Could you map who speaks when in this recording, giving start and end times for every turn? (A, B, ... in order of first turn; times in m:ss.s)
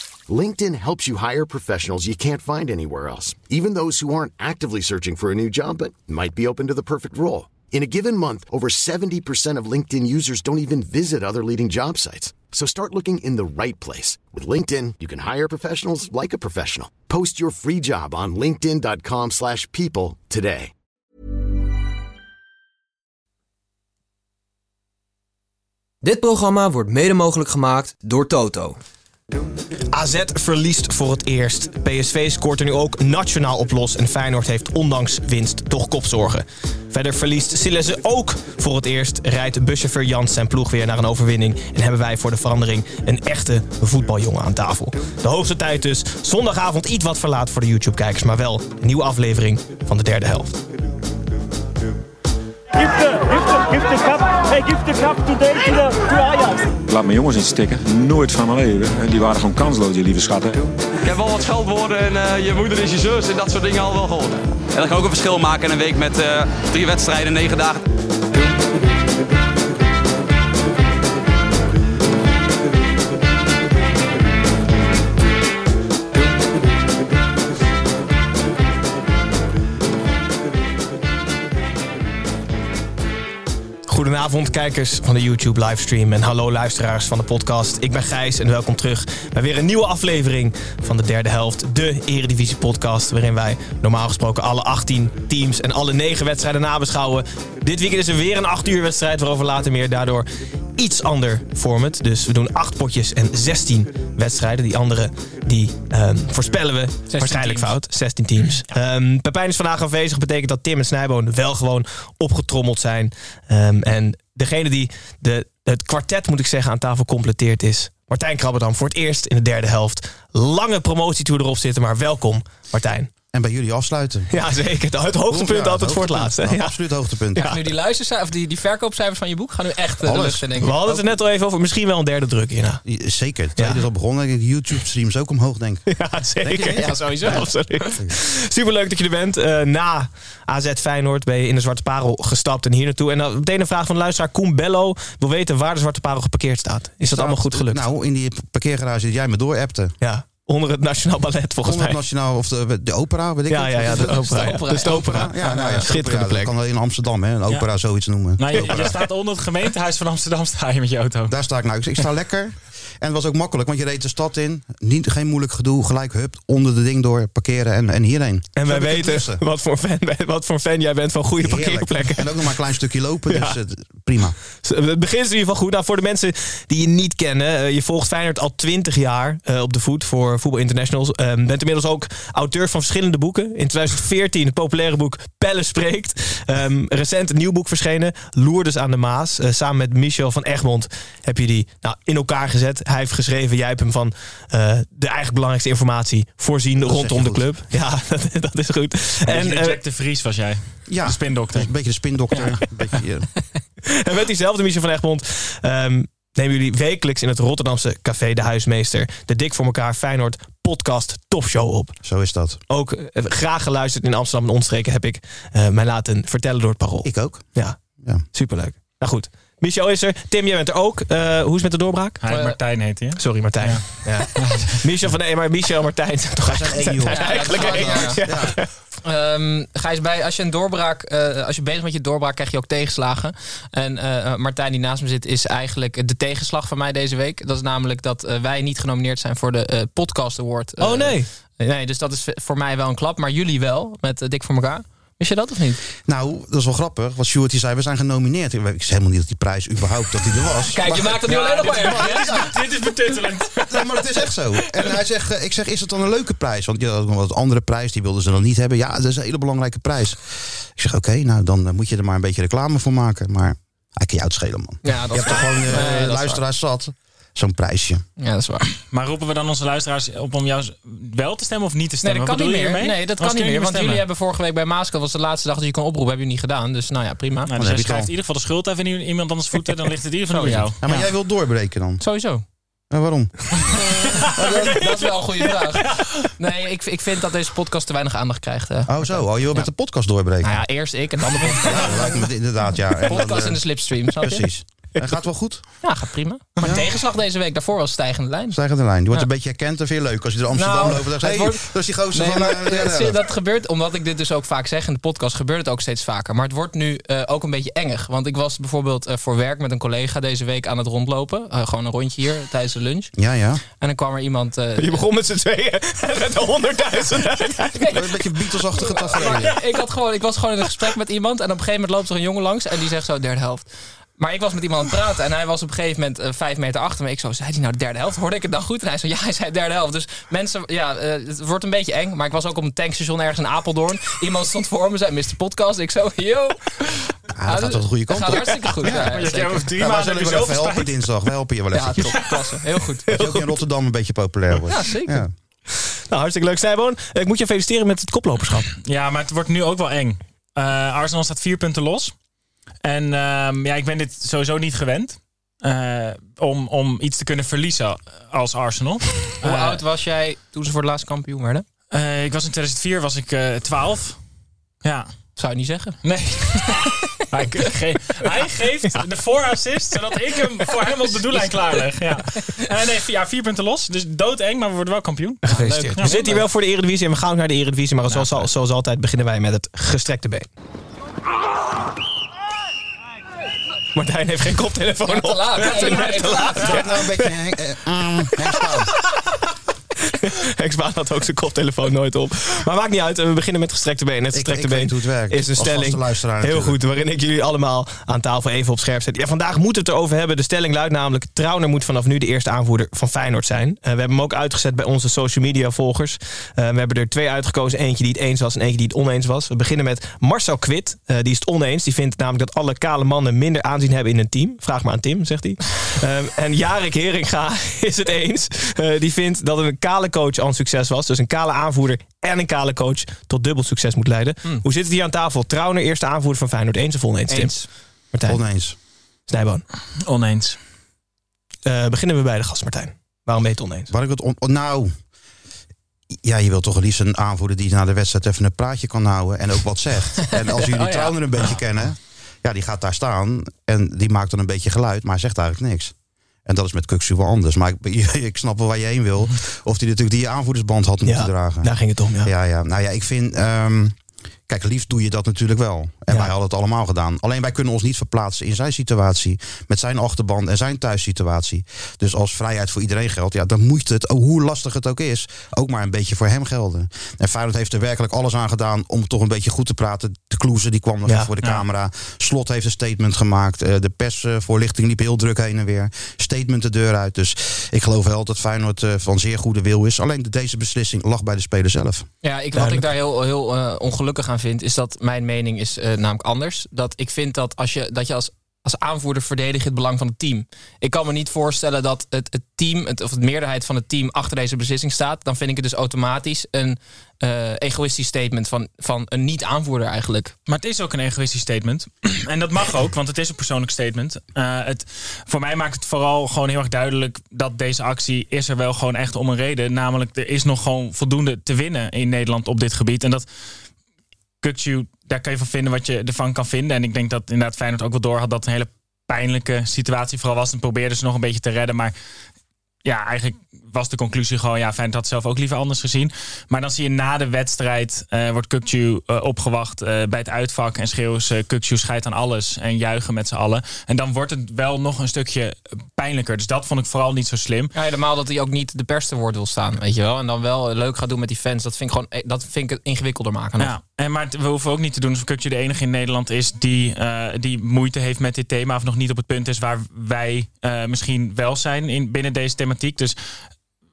0:00.3-0:20.7 A
0:26.0-0:28.8 B
0:29.9-0:50.6 C
0:53.1-0:56.5 D
0:56.9-1:00.7 E
1:01.0-1:07.8 F
1:23.9-1:40.3 C
1:40.8-2:03.1 C
1:47.1-1:47.7 G
2:03.3-2:04.3 H
2:04.3-2:06.8 C
2:05.3-2:07.5 H
2:07.4-2:11.1 G
2:10.0-2:10.4 H
2:10.6-2:12.8 C
2:12.8-2:18.2 H
2:13.6-2:13.8 C
2:15.9-2:27.8 C
2:16.6-2:17.6 G
2:27.0-2:30.0 H
2:30.0-2:32.0 C
2:31.6-2:39.0 H
2:33.5-2:36.5 C
2:33.8-2:35.9 G
2:38.4-2:41.4 I
2:41.3-2:49.4 H
2:48.6-2:52.3 C
2:51.4-2:54.4 H
2:53.3-2:53.6 C
2:54.6-3:19.8 C
3:16.8-3:17.5 H
3:19.2-3:21.7 I
3:20.9-3:23.3 H
3:22.3-3:23.0 I
3:23.9-3:32.0 C
3:32.0-3:32.6 H
3:32.7-3:42.2 C
3:37.0-3:38.2 H
3:42.2-3:44.7 I
3:42.3-3:42.6 G
3:43.2-3:48.7 C
3:46.4-3:48.6 H
3:47.1-3:48.2 G
3:49.0-4:05.8 G
4:00.8-4:01.3 C
4:06.0-4:12.6 H
4:10.7-4:12.3 G
4:11.3-4:13.9 I
4:13.7-4:28.0 H
4:24.8-4:26.4 G
4:28.2-4:28.6 G
4:28.8-4:34.0 I
4:32.0-4:37.5 G
4:37.5-4:41.0 I
4:37.6-4:38.1 H
4:40.3-4:41.0 G
4:40.8-4:42.0 H
4:42.0-4:42.4 G
4:42.9-4:45.0 H
4:43.7-4:46.3 I
4:44.2-4:49.7 G
4:48.9-4:50.6 H
4:50.4-4:52.3 G
4:51.6-4:55.8 H
4:53.1-4:54.5 G
4:55.8-4:58.6 G
4:56.6-4:56.9 H
4:58.5-5:03.2 H
5:00.5-5:13.1 G
5:13.2-5:13.6 H
5:13.8-5:15.0 G
5:14.8-5:18.0 C
5:17.8-5:18.0 G
5:17.9-5:19.6 H
5:18.7-5:39.7 G
5:37.4-5:39.2 H
5:38.9-5:41.0 I
5:39.8-5:42.3 H
5:41.7-5:43.1 G
5:43.1-5:43.6 C
5:43.1-5:45.3 H
5:44.7-5:45.2 G
5:45.7-5:48.7 C
5:48.8-5:52.2 I
5:52.8-5:59.8 I
5:59.4-6:01.6 G
6:01.9-6:04.2 I
6:04.8-6:05.2 I
6:05.4-6:06.2 G
6:06.0-6:15.4 I
6:15.4-6:20.5 C
6:15.5-6:16.4 G
6:16.0-6:16.2 I
6:18.1-6:18.5 I
6:23.9-6:27.3 C
6:25.0-6:26.7 G
6:25.6-6:26.4 I
6:26.6-6:28.9 H
6:30.1-7:08.4 C
6:34.3-6:36.8 H
7:07.3-7:07.7 G
7:08.3-7:08.8 H
7:09.3-7:09.6 C
7:10.1-7:10.6 I
7:11.6-7:13.9 C
7:13.9-7:14.9 H
7:16.2-7:25.9 H
7:20.3-7:21.2 G
7:26.4-8:02.1 H
7:31.0-7:32.3 C
8:02.2-8:20.3 G
8:02.6-8:02.8 C
8:20.5-8:33.2 I
8:34.4-8:41.9 I
8:42.8-8:57.7 I
8:57.7-9:03.8 G
9:03.6-9:13.2 I